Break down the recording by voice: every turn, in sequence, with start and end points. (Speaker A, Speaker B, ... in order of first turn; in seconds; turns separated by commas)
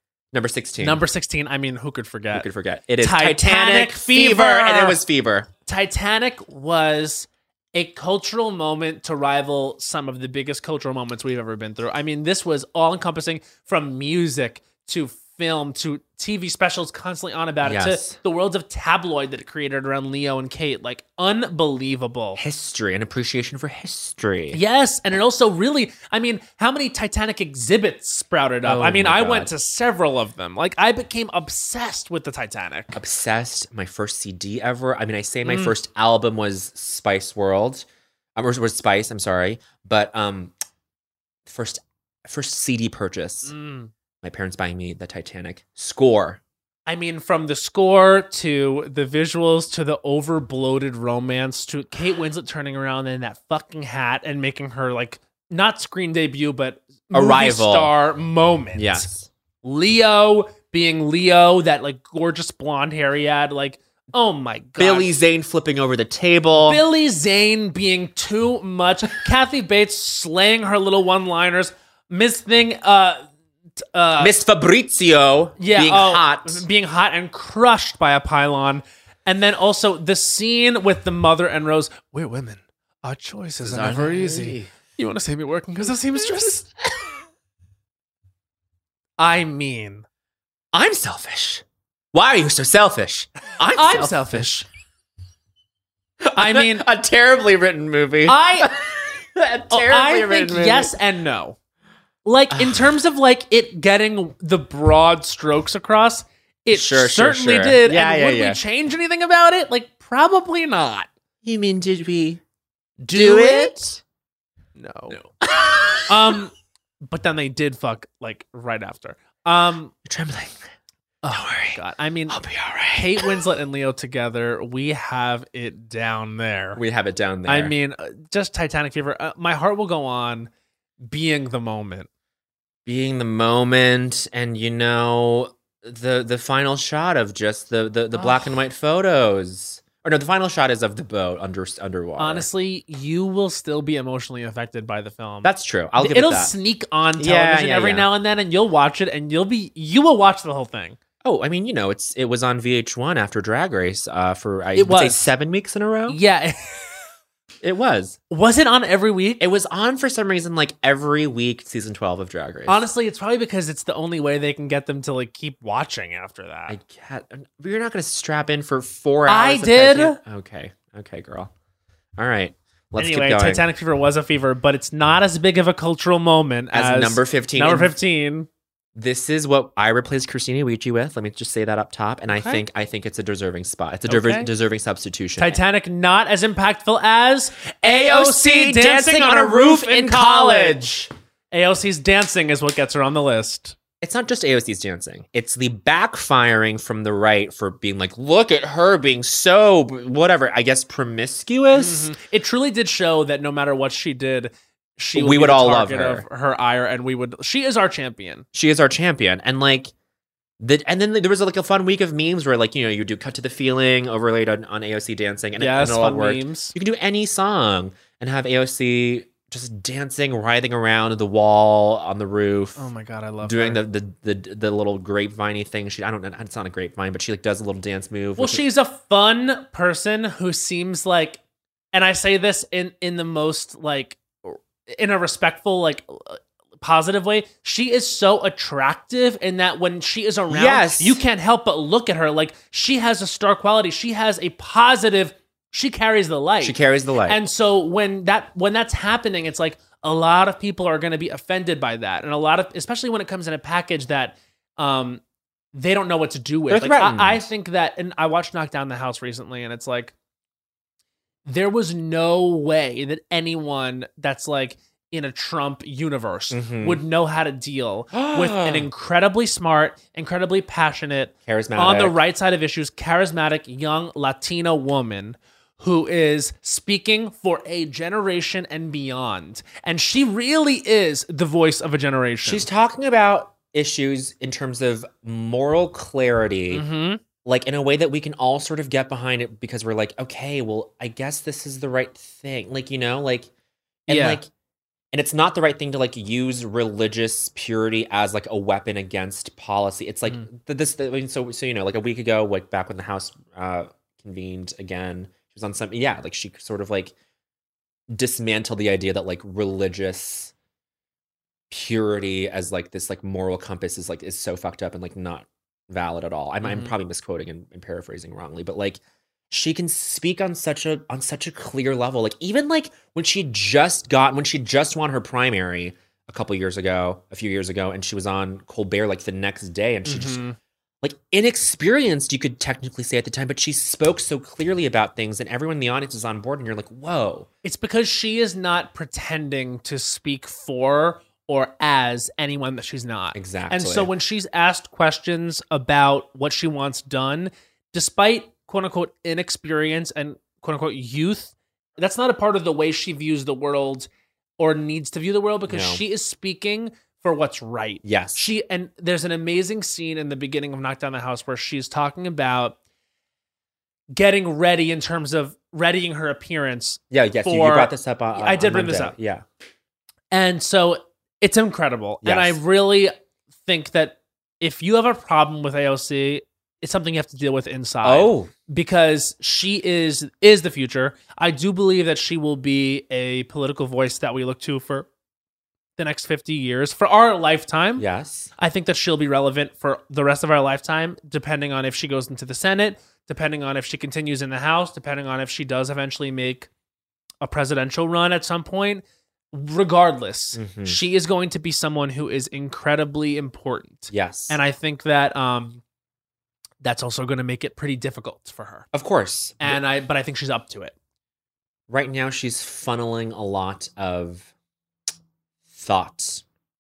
Speaker A: 0.3-1.0, Speaker B: 0.8-2.5, Speaker A: 2.3-5.5, Speaker B: 3.0-5.0, Speaker B: 5.7-22.4, Speaker A: 17.6-18.2, Speaker A: 22.4-24.6, Speaker B: 24.5-33.0, Speaker A: 28.6-29.5, Speaker A: 32.9-40.5, Speaker B: 35.4-35.7, Speaker A: 41.5-43.5, Speaker B: 43.4-43.9, Speaker A: 44.2-46.4, Speaker B: 46.9-59.1, Speaker A: 57.1-57.9, Speaker A: 58.8-59.3, Speaker B: 59.6-65.1, Speaker A: 64.8-66.8, Speaker B: 66.6-73.2, Speaker B: 73.9-74.3, Speaker A: 74.2-76.7, Speaker B: 75.6-86.7, Speaker A: 83.6-84.7, Speaker A: 86.2-86.5, Speaker B: 89.2-90.0, Speaker A: 90.7-94.5, Speaker B: 93.7-94.7, Speaker A: 96.2-100.9, Speaker B: 96.4-96.9, Speaker B: 98.2-98.7, Speaker B: 99.7-101.6, Speaker B: 102.2-111.1, Speaker A: 102.5-102.9, Speaker A: 106.7-108.6, Speaker A: 111.4-112.4, Speaker B: 113.0-114.0, Speaker A: 113.1-113.9, Speaker B: 114.8-115.3, Speaker A: 115.1-116.4, Speaker B: 116.1-119.9, Speaker A: 120.0-120.6, Speaker B: 121.2-122.4, Speaker A: 121.3-123.4, Speaker B: 122.9-126.8, Speaker A: 126.8-127.8, Speaker B: 127.5-130.5, Speaker B: 131.0-132.1, Speaker A: 132.9-142.5, Speaker B: 138.1-138.6, Speaker B: 142.2-151.0, Speaker A: 145.4-146.5, Speaker A: 147.2-148.1, Speaker A: 151.2-156.2, Speaker B: 154.8-155.3, Speaker B: 156.1-156.9, Speaker A: 157.6-158.2, Speaker B: 158.3-159.4, Speaker A: 159.4-162.9, Speaker B: 162.7-166.8, Speaker A: 166.7-171.5, Speaker B: 169.3-170.2, Speaker A: 172.2-173.7, Speaker B: 173.0-178.5, Speaker A: 176.7-177.9, Speaker A: 178.9-185.6, Speaker B: 182.3-182.6, Speaker B: 184.1-184.5, Speaker B: 185.4-190.9, Speaker A: 187.8-191.1, Speaker B: 191.5-193.8, Speaker A: 194.0-202.1, Speaker B: 201.7-208.5, Speaker A: 205.1-206.3, Speaker A: 208.5-209.9, Speaker A: 210.6-222.9, Speaker B: 215.6-216.7, Speaker B: 222.8-223.8, Speaker A: 223.4-228.6, Speaker B: 228.4-231.4, Speaker B: 231.9-255.2, Speaker A: 240.5-241.2, Speaker A: 246.6-247.4, Speaker B: 255.7-260.1, Speaker A: 256.7-257.4, Speaker B: 261.5-282.7, Speaker A: 266.5-267.0, Speaker A: 268.1-268.9, Speaker A: 271.5-272.2, Speaker A: 282.4-286.9, Speaker B: 286.7-287.2, Speaker A: 287.4-293.5, Speaker B: 294.1-294.4, Speaker A: 294.1-294.5, Speaker A: 295.1-307.1, Speaker A: 308.1-310.5, Speaker A: 311.7-319.0, Speaker B: 316.6-316.9, Speaker A: 319.5-330.4, Speaker B: 330.1-330.6, Speaker A: 331.0-337.5, Speaker B: 337.6-362.8, Speaker A: 343.3-344.1, Speaker A: 355.7-356.0, Speaker A: 358.0-358.5, Speaker B: 364.1-369.2, Speaker A: 367.1-369.4, Speaker B: 370.3-385.1, Speaker A: 372.2-372.6, Speaker A: 378.0-378.5, Speaker B: 386.0-388.1, Speaker A: 388.0-388.5, Speaker B: 388.6-396.7, Speaker B: 397.4-405.8, Speaker A: 400.5-401.0, Speaker A: 404.1-404.6, Speaker B: 406.8-408.9, Speaker A: 408.9-409.8, Speaker B: 409.6-410.9, Speaker A: 411.9-414.5, Speaker A: 415.7-416.4